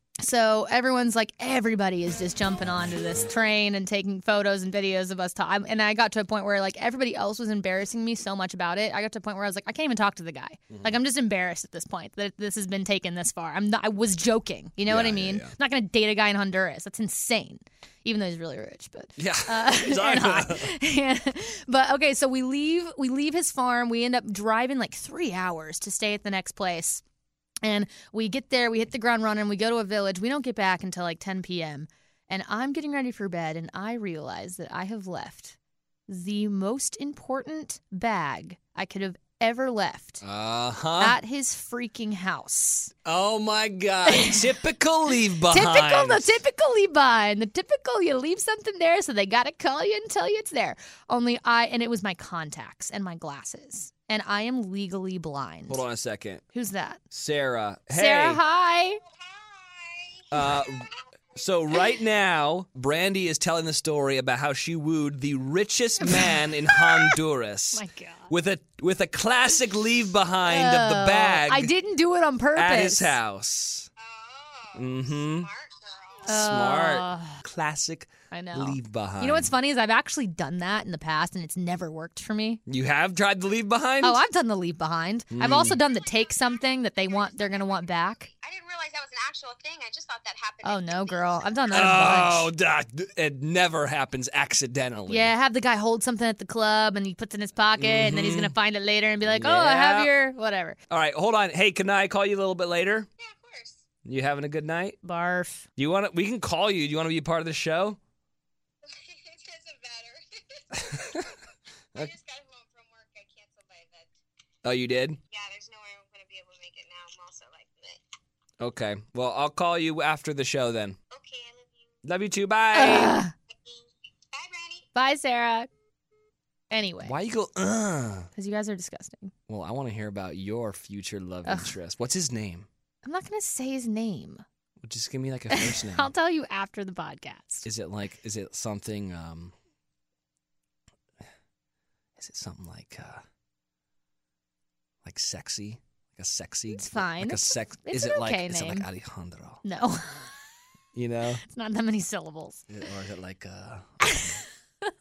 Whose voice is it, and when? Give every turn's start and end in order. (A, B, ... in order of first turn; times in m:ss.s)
0:00.2-0:27.0 A
0:10.7-0:11.0 B
0:14.9-0:15.5 B
0:19.2-0:20.7 B
0:27.6-0:35.6 A
0:36.1-0:40.2 A
0:40.2-0:41.2 B
0:41.0-0:42.9 A
0:43.0-0:46.4 B
0:44.1-0:44.5 A
0:45.5-0:55.8 A
0:55.7-0:56.4 B
0:56.5-0:57.0 A
0:57.1-0:58.4 B
0:57.9-0:59.0 A
0:59.2-1:00.9 C
1:00.3-1:11.7 B
1:06.0-1:07.2 A
1:07.7-1:08.3 A
1:10.4-1:13.2 A
1:12.6-1:13.9 B
1:14.0-1:16.4 C
1:14.8-1:15.5 B
1:16.3-1:17.4 A
1:16.3-1:19.5 B
1:18.3-1:22.6 A
1:22.7-1:24.2 B
1:24.0-1:28.3 A
1:25.3-1:25.8 B
1:25.9-1:32.1 C
1:30.6-1:32.5 A
1:31.7-1:35.3 B
1:35.1-1:40.8 A
1:37.8-1:38.6 B
1:39.3-1:40.1 B
1:40.9-1:43.1 B
1:43.2-1:43.8 C
1:44.0-1:45.0 B
1:45.0-1:45.7 A
1:45.8-1:48.0 B
1:48.8-1:51.4 C
1:50.7-1:51.3 B
1:51.9-1:54.1 C
1:54.6-1:55.2 B
1:55.3-1:58.0 C
1:58.6-2:01.0 B
2:01.1-2:02.0 C
2:02.0-2:03.2 B
2:02.7-2:03.3 A
2:03.5-2:04.9 C
2:05.0-2:05.7 A
2:06.7-2:07.1 A
2:07.0-2:08.3 B
2:08.4-2:09.3 A
2:09.5-2:12.7 B
2:11.4-2:11.8 A
2:13.0-2:14.4 A
2:14.8-2:16.1 B
2:15.5-2:17.7 A
2:17.6-2:19.5 B
2:22.2-2:23.2 B
2:25.0-2:29.6 B
2:26.7-2:28.9 A
2:29.6-2:30.4 A
2:31.0-2:31.4 B
2:31.4-2:32.7 A
2:32.7-2:34.4 B
2:34.0-2:34.9 A